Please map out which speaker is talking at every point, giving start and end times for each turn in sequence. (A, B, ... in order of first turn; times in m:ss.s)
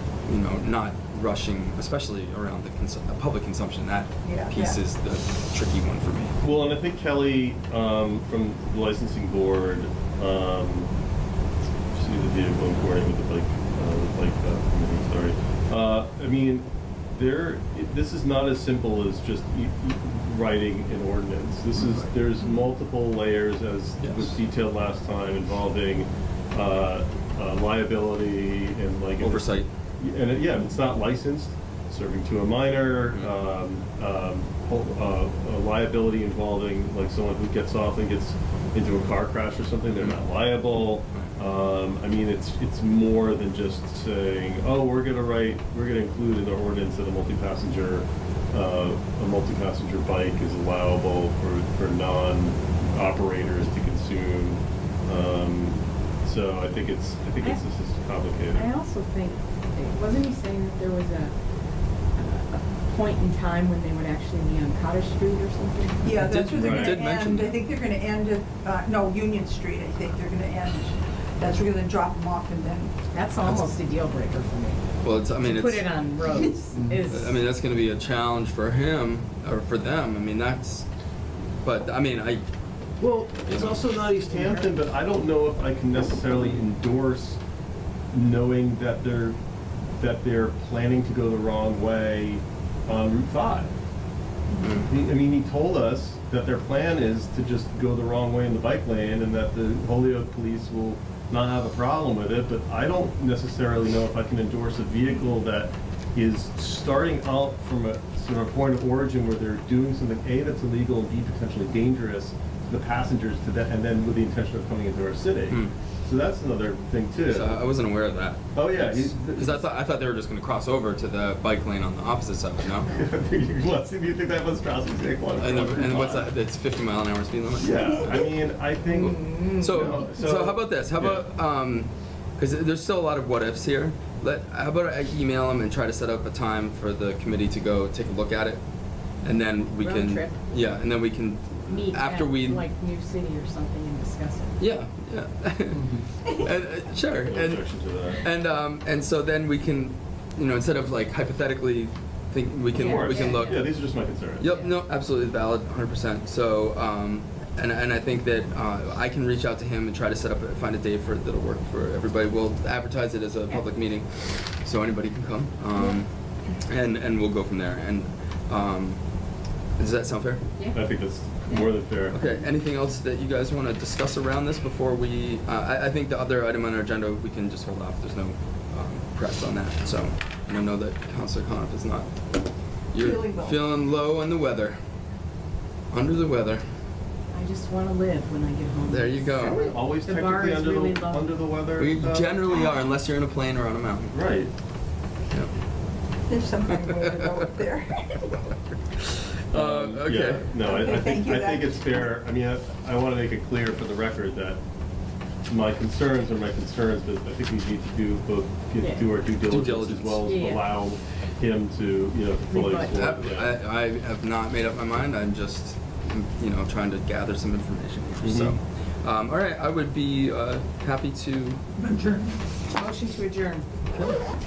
0:00.2-0:06.4 A
0:04.2-0:04.8 B
0:06.4-0:10.9 C
0:11.9-0:58.7 C
0:24.0-0:24.4 A
0:29.2-0:29.7 A
0:58.5-1:01.3 D
1:02.1-1:06.2 D
1:06.0-1:13.0 B
1:06.2-1:07.6 A
1:06.5-1:07.0 C
1:13.1-1:14.8 D
1:13.4-1:13.7 A
1:15.0-1:15.9 A
1:15.4-1:17.4 D
1:16.9-1:20.9 A
1:21.6-1:22.4 A
1:23.0-1:27.4 C
1:23.5-1:23.9 A
1:28.1-1:29.4 C
1:30.0-1:33.8 C
1:34.6-1:57.6 C
1:57.3-2:02.9 A
1:58.5-1:59.7 C
2:02.8-2:06.3 C
2:05.4-2:08.2 A
2:07.6-2:11.2 C
2:09.0-2:09.6 D
2:09.3-2:18.6 A
2:19.2-2:22.6 A
2:19.8-2:20.4 D
2:21.7-2:24.6 D
2:24.6-2:33.7 A
2:27.3-2:28.2 C
2:32.7-2:33.7 D
2:32.8-2:34.5 C
2:34.4-2:49.0 A
2:49.8-2:50.4 A
2:50.6-2:50.9 D
2:50.7-2:52.2 C
2:52.1-3:02.1 A
3:02.9-3:04.8 A
3:02.9-3:03.6 B
3:05.9-3:06.6 A
3:07.3-3:11.4 D
3:08.9-3:09.6 A
3:09.4-3:12.4 C
3:11.8-3:14.2 A
3:14.1-3:14.5 C
3:16.3-3:18.0 B
3:16.6-3:20.5 A
3:19.5-3:24.6 C
3:20.6-3:22.0 B
3:25.5-3:33.5 C
3:28.8-3:29.1 D
3:29.4-3:30.3 A
3:30.2-3:30.7 D
3:32.5-3:33.0 D
3:32.8-3:41.6 A
3:38.2-3:38.6 C
3:41.8-3:42.3 B
3:42.7-3:43.6 D